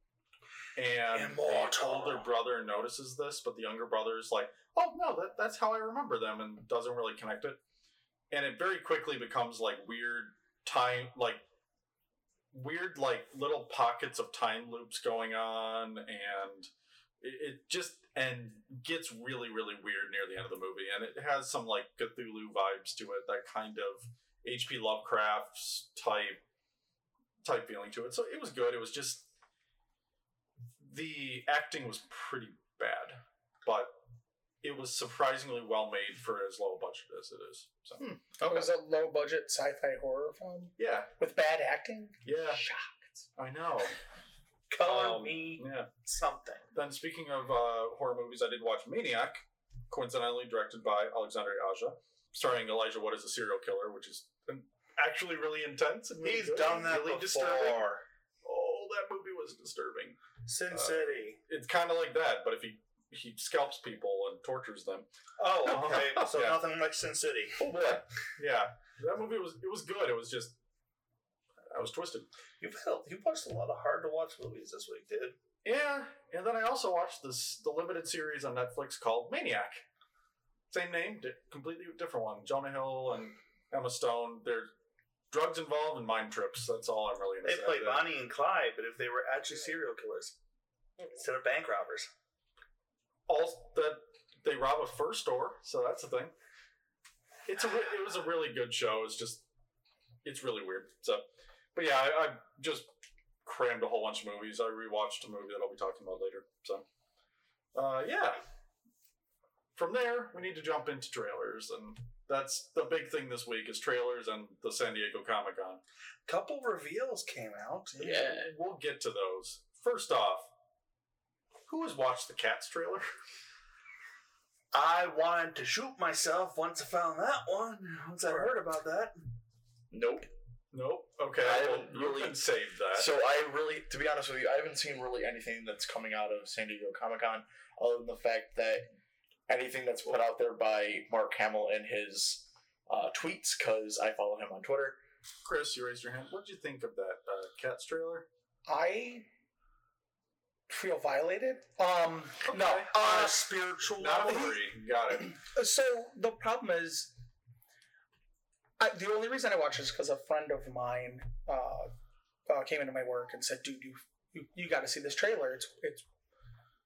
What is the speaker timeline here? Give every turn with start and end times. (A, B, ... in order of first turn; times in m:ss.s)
0:00.8-0:07.6 A
0:01.1-0:02.3 B
0:08.3-0:11.4 A
0:12.5-0:16.7 A
0:17.2-0:26.4 A
0:27.4-0:29.3 A
0:30.8-0:33.9 A
0:34.6-0:38.7 A
0:38.4-0:43.1 C
0:40.8-0:41.1 A
0:42.2-0:42.6 A
0:43.4-0:44.0 A
0:44.7-0:46.6 B
0:44.8-0:45.9 A
0:46.7-1:05.1 A
0:56.2-0:57.8 B
1:00.4-1:01.4 B
1:05.4-1:07.6 B
1:05.6-1:06.6 A
1:07.6-1:08.0 D
1:08.4-1:10.6 A
1:11.7-1:12.3 A
1:12.6-1:15.4 B
1:15.6-1:19.8 A
1:20.7-1:24.7 A
1:25.3-1:28.1 A
1:27.4-1:30.3 B
1:31.0-1:32.1 B
1:33.3-1:36.3 A
1:37.4-1:39.4 A
1:40.2-1:42.9 A
1:43.4-1:46.8 A
1:47.8-1:48.4 A
1:49.8-1:55.8 A
1:56.2-1:58.2 B
1:58.0-1:58.5 D
1:58.1-2:00.5 A
2:01.7-2:03.1 A
2:04.7-2:09.2 B
2:09.9-2:10.3 D
2:10.7-2:13.1 A
2:11.4-2:12.4 D
2:12.9-2:18.9 D
2:19.5-2:25.0 D
2:25.4-2:28.3 A
2:28.6-2:29.3 C
2:30.7-2:33.3 C
2:32.4-2:32.9 A
2:32.9-2:34.5 B
2:34.0-2:35.4 A
2:34.3-2:34.6 C
2:35.2-2:37.2 C
2:38.8-2:41.9 C
2:42.5-2:46.0 C